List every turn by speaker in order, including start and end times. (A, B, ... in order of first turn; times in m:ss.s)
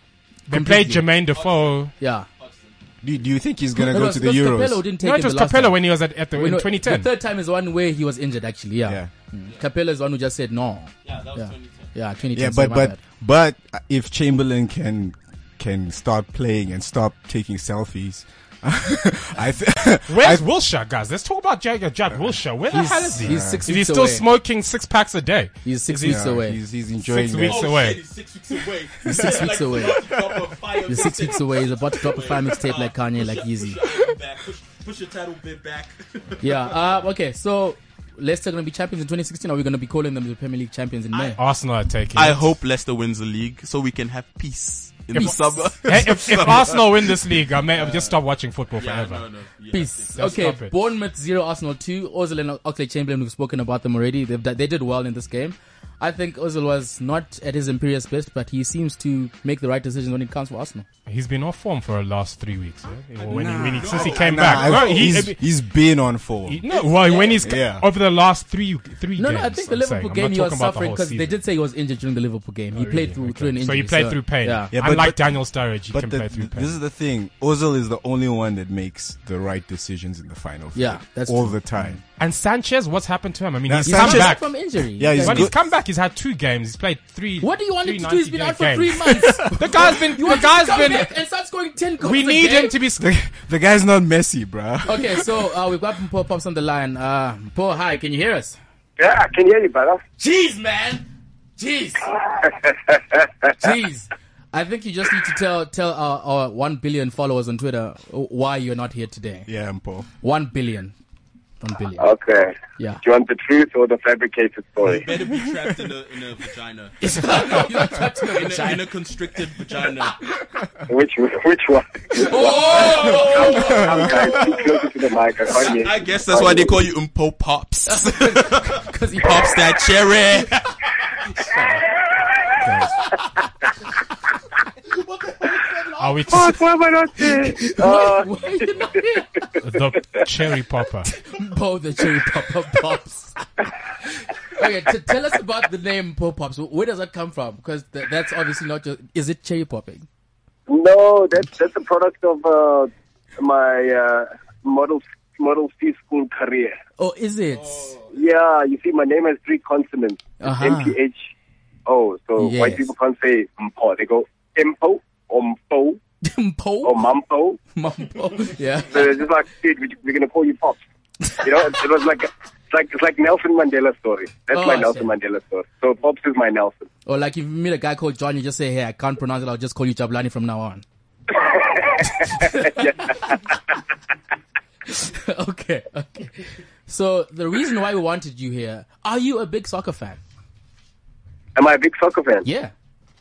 0:00.5-0:01.9 A
0:00.5-0:01.1 B
0:01.3-0:02.8 C
0:02.0-0:02.3 B
0:03.0-0:04.8 D
0:03.8-0:05.8 B
0:05.0-0:07.1 A
0:06.3-0:13.0 B
0:08.8-0:09.1 D
0:11.0-0:11.9 C
0:12.3-0:20.4 D
0:20.1-0:26.4 A
0:22.1-0:22.4 D
0:22.7-0:24.3 B
0:23.0-0:23.6 D
0:25.6-0:26.6 B
0:26.0-0:27.8 D
0:27.0-0:28.0 A
0:27.4-0:36.6 C
0:29.0-0:30.1 B
0:30.8-0:33.8 B
0:36.4-0:41.4 B
0:41.1-0:41.4 C
0:41.4-0:42.5 A
0:42.1-0:47.2 C
0:45.1-0:49.2 A
0:47.7-0:48.2 C
0:48.8-0:50.3 C
0:49.7-1:00.9 B
0:50.2-0:50.8 A
1:01.1-1:05.4 A
1:03.3-1:06.6 D
1:03.3-1:05.2 C
1:06.5-1:11.4 A
1:06.7-1:07.5 C
1:07.4-1:07.9 D
1:09.2-1:14.7 B
1:12.7-1:16.8 A
1:14.7-1:22.0 D
1:20.8-1:22.0 B
1:22.2-1:24.6 A
1:23.7-1:25.6 D
1:23.9-1:25.5 B
1:25.1-1:31.1 A
1:27.4-1:32.8 B
1:32.0-1:33.1 A
1:33.0-1:35.5 D
1:34.9-1:38.6 B
1:39.0-1:40.0 E
1:40.2-1:41.1 B
1:41.6-1:42.1 B
1:42.2-1:43.3 E
1:43.6-1:49.5 B
1:49.5-1:50.1 D
1:50.2-1:50.9 B
1:51.6-1:52.1 B
1:52.0-1:55.1 E
1:54.8-1:57.7 C
1:57.0-1:58.9 B
1:58.3-2:00.2 C
2:00.9-2:06.8 E
2:02.1-2:04.0 B
2:02.5-2:04.5 C
2:03.6-2:04.5 D
2:05.5-2:10.8 C
2:07.9-2:09.8 B
2:11.3-2:11.9 B
2:12.6-2:12.9 A
2:15.6-2:18.6 E
2:16.0-2:16.7 A
2:17.2-2:19.3 B
2:19.6-2:21.1 A
2:21.0-2:30.1 B
2:30.7-2:36.8 E
2:37.0-2:37.9 B
2:37.5-2:38.1 C
2:38.1-2:41.3 E
2:40.4-2:41.0 B
2:41.9-2:46.0 E
2:42.4-2:42.9 B
2:46.2-2:47.0 B
2:46.8-2:47.6 E
2:47.8-2:49.1 B
2:48.9-2:50.8 E
2:51.3-2:56.9 E
2:54.5-2:55.1 B
2:57.1-3:00.8 B
3:01.3-3:03.4 E
3:02.0-3:03.4 B
3:04.9-3:10.2 B
3:11.6-3:12.5 E
3:12.4-3:12.7 B